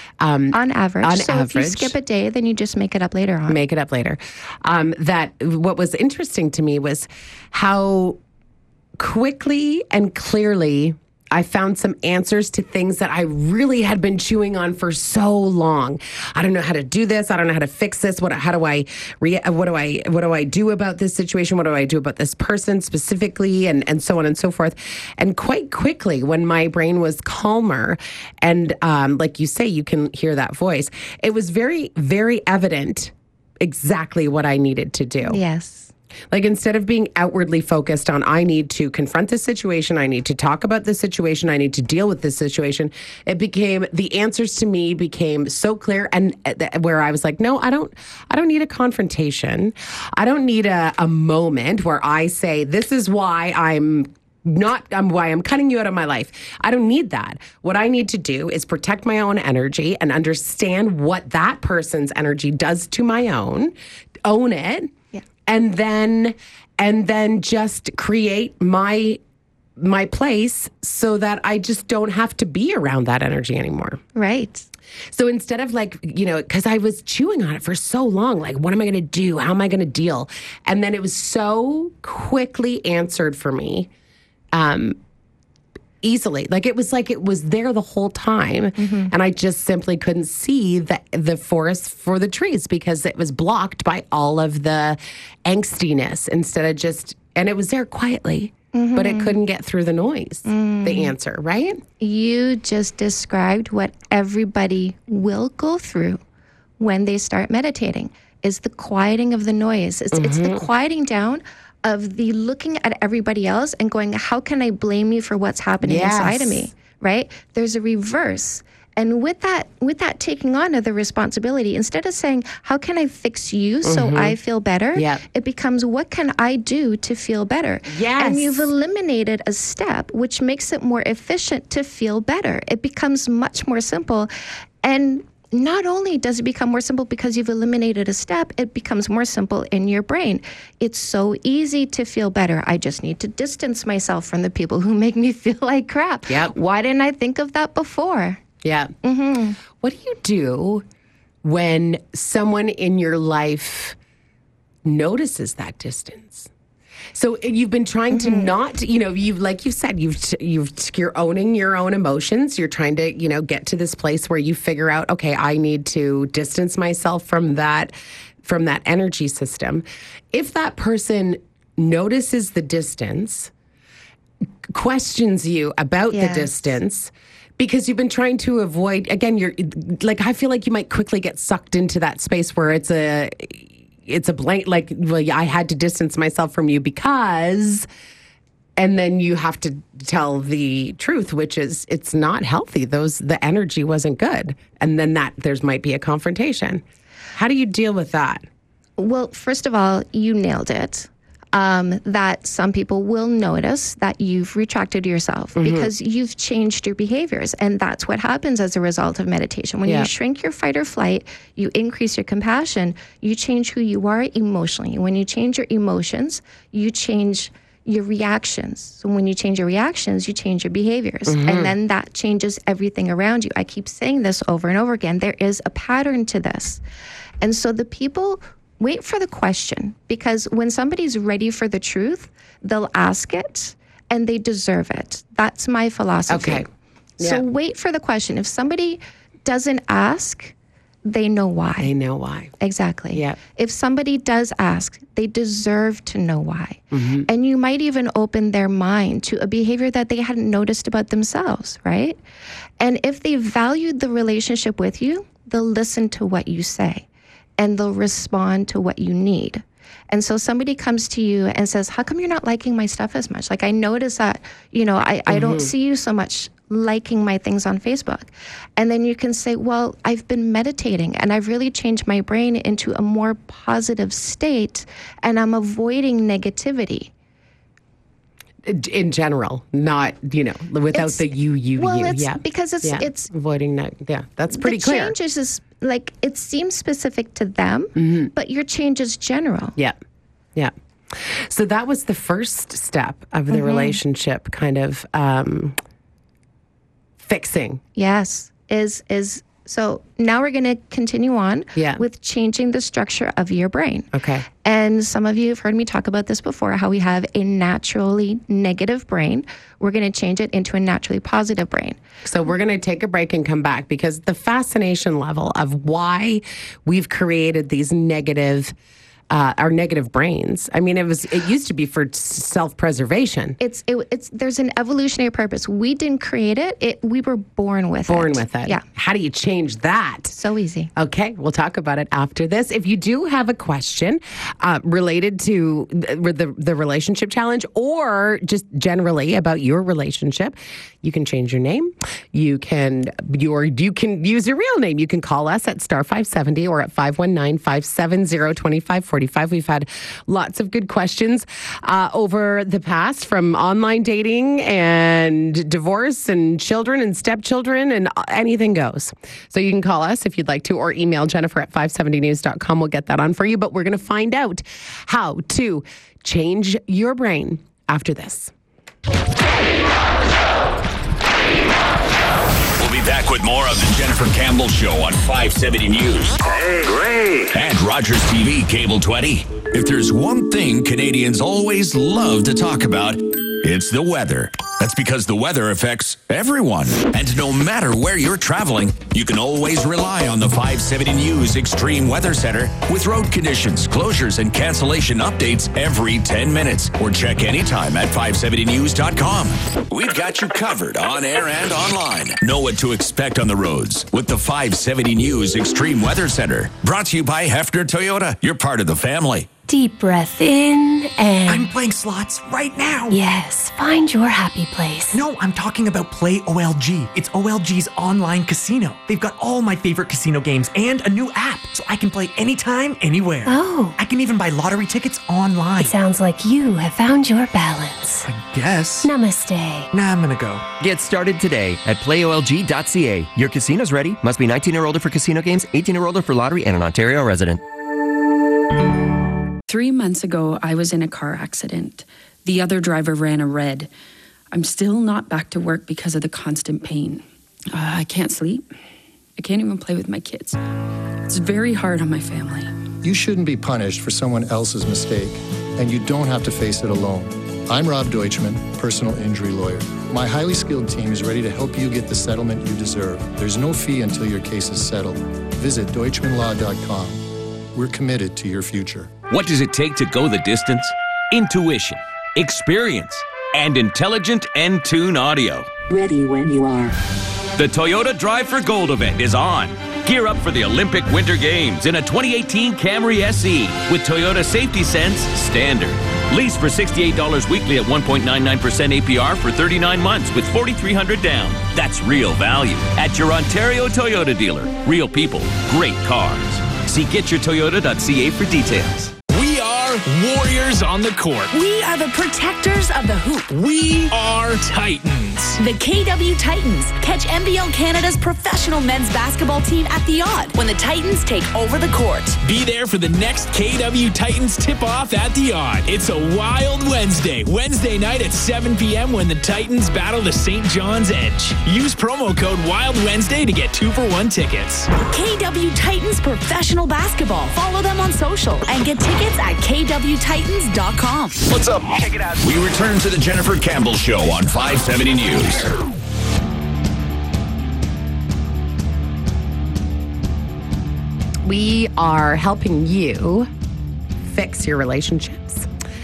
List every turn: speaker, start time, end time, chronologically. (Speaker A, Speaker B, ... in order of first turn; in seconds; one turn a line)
Speaker A: 0.2-1.9
Speaker B: 0.5-3.6
Speaker A: 3.5-8.2
Speaker A: 9.0-35.4
Speaker B: 35.2-35.9
Speaker A: 36.3-63.7
Speaker A: 64.2-64.9
Speaker A: 65.5-69.2
Speaker A: 69.8-74.0
Speaker B: 74.2-74.7
Speaker A: 75.1-83.9
Speaker A: 84.5-85.0
Speaker A: 86.0-101.8
Speaker B: 88.8-89.1
Speaker B: 98.7-99.3
Speaker B: 100.5-101.1
Speaker B: 102.0-106.2
Speaker B: 106.8-134.3
Speaker A: 110.1-110.7
Speaker A: 115.8-116.7
Speaker A: 123.8-124.3
Speaker A: 124.9-125.2
Speaker A: 127.9-128.7
Speaker B: 134.8-148.4
Speaker A: 146.3-146.6
Speaker A: 148.6-148.9
Speaker B: 149.0-149.6
Speaker A: 149.7-150.8
Speaker A: 151.4-153.9
Speaker A: 154.8-156.5
Speaker A: 157.1-173.5
Speaker B: 158.1-158.5
Speaker A: 174.7-187.9
Speaker B: 176.1-176.5
Speaker A: 188.8-196.8
Speaker A: 197.3-198.4
Speaker B: 199.0-226.8
Speaker A: 205.6-205.9
Speaker A: 221.3-221.7
Speaker B: 227.4-236.7
Speaker A: 236.3-236.7
Speaker A: 237.2-237.4
Speaker B: 237.2-240.5
Speaker B: 241.1-241.9
Speaker A: 241.8-242.5
Speaker B: 242.6-252.2
Speaker A: 243.1-243.4
Speaker A: 246.9-247.3
Speaker B: 252.8-257.1
Speaker B: 257.6-277.1
Speaker A: 265.3-265.7
Speaker A: 278.6-285.1
Speaker B: 280.9-283.3
Speaker B: 284.5-289.8
Speaker A: 287.9-288.3
Speaker A: 290.6-295.8
Speaker B: 293.5-294.0
Speaker A: 297.2-297.8
Speaker B: 297.9-304.1
Speaker A: 301.8-302.0
Speaker A: 304.1-304.5
Speaker B: 304.6-312.0
Speaker A: 312.2-318.7
Speaker A: 319.3-323.6
Speaker B: 323.6-328.8
Speaker A: 328.1-330.3
Speaker B: 330.3-330.9
Speaker A: 330.9-368.5
Speaker C: 372.8-409.5
Speaker D: 409.7-411.7
Speaker E: 411.5-413.2
Speaker D: 413.1-415.2
Speaker E: 415.1-425.9
Speaker D: 423.4-424.0
Speaker D: 425.8-428.2
Speaker E: 428.2-429.1
Speaker D: 429.0-429.9
Speaker E: 429.9-430.7
Speaker F: 430.7-437.6
Speaker G: 439.7-443.9
Speaker G: 444.5-448.7
Speaker G: 449.4-450.6
Speaker G: 451.3-452.7
Speaker H: 453.0-469.1
Speaker I: 469.3-475.7
Speaker D: 475.9-476.9
Speaker I: 477.6-499.1
Speaker J: 499.3-501.5
Speaker K: 501.5-503.6
Speaker J: 503.5-505.6
Speaker K: 505.6-512.4
Speaker J: 512.4-524.9
Speaker K: 525.1-531.4
Speaker C: 531.5-535.7
Speaker A: 541.4-543.5
Speaker A: 544.3-545.7